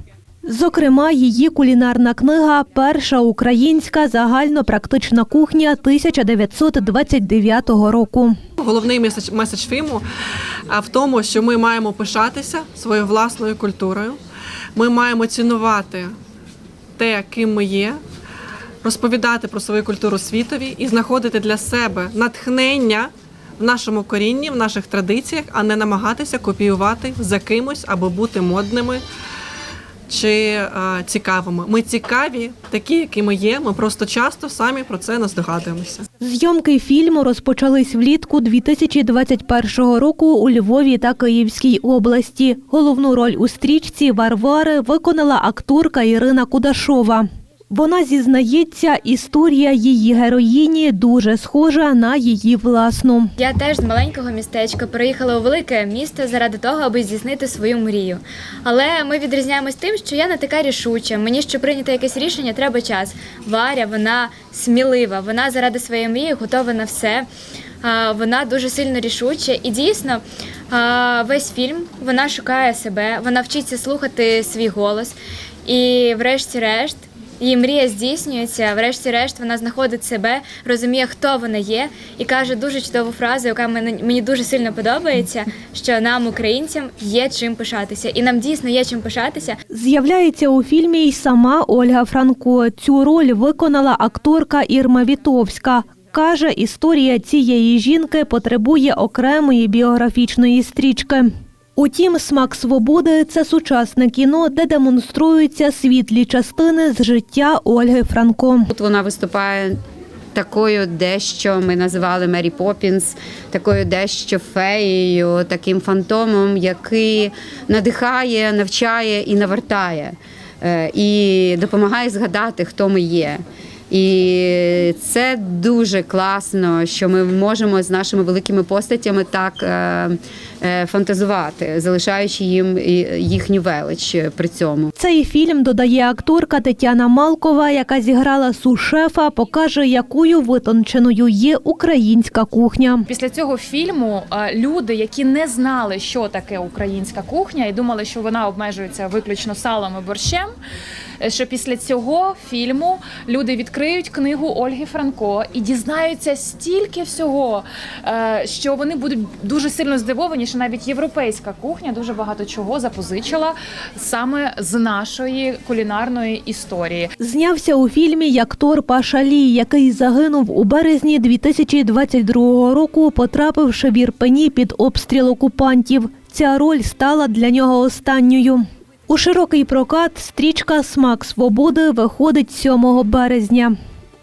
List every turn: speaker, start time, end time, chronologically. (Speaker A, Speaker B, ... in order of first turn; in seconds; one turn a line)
Speaker A: 0.5-8.3
Speaker B: 8.6-10.0
Speaker B: 10.7-14.2
Speaker B: 14.8-16.1
Speaker B: 17.0-18.0
Speaker B: 18.8-29.0
Speaker B: 30.1-36.0
Speaker A: 36.2-53.3
Speaker C: 53.4-67.3
Speaker C: 67.8-89.6
Speaker A: 89.7-108.7
Speaker D: 108.7-109.8
Speaker D: 110.3-134.9
Speaker A: 135.0-143.1
Speaker E: 143.1-150.5
Speaker E: 151.2-167.1
Speaker A: 167.2-183.7